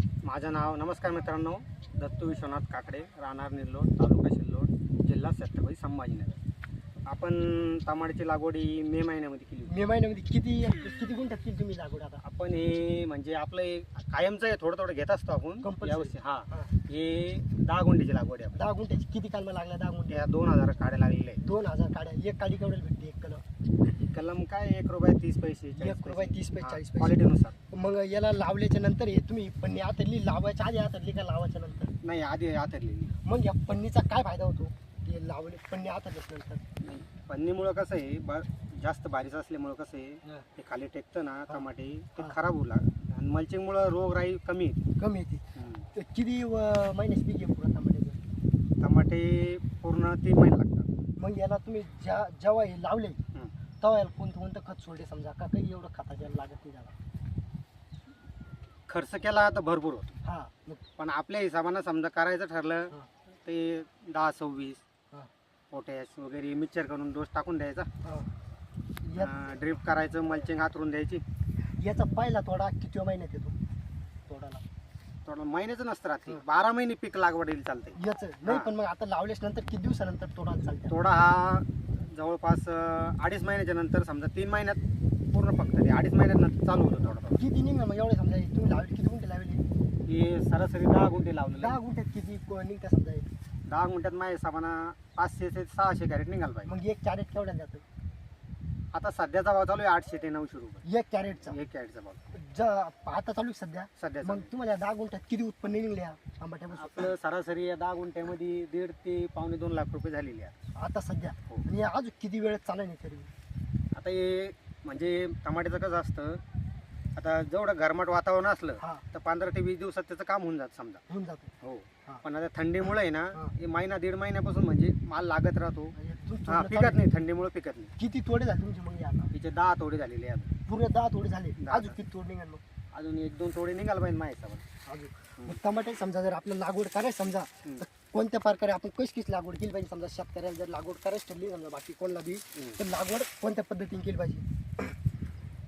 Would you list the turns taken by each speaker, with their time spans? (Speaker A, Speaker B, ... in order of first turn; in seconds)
Speaker A: 0.2-6.4, 7.0-9.8, 12.2-18.6, 20.1-21.4, 24.0-27.6, 32.0-33.1, 36.8-44.8, 45.5-45.9, 48.8-50.9, 58.9-60.1, 61.0-62.9, 63.4-64.8, 65.7-67.9, 69.1-71.2, 75.2-78.7, 80.9-84.8, 85.3-87.4, 90.0-91.8, 93.7-96.7, 98.9-100.8, 101.5-102.2, 104.0-104.5, 106.7-110.5, 113.9-116.4, 117.1-121.0, 121.6-125.9, 126.5-127.9, 129.3-130.5, 131.6-131.9, 132.9-134.6
Speaker B: 9.7-12.2, 15.6-16.7, 18.5-20.3, 21.4-23.4, 25.8-27.2, 27.7-31.9, 33.2-36.6, 45.0-48.2, 51.2-53.2, 53.8-56.9, 60.2-60.8, 68.0-68.3, 69.0-69.5, 71.8-73.5, 74.3-74.6, 78.0-80.9, 87.3-89.6, 91.6-93.3, 96.6-97.8, 100.8-101.6, 102.3-107.1, 110.8-113.3, 121.1-121.5, 125.9-127.0, 128.0-129.3, 130.7-132.6, 134.8-144.4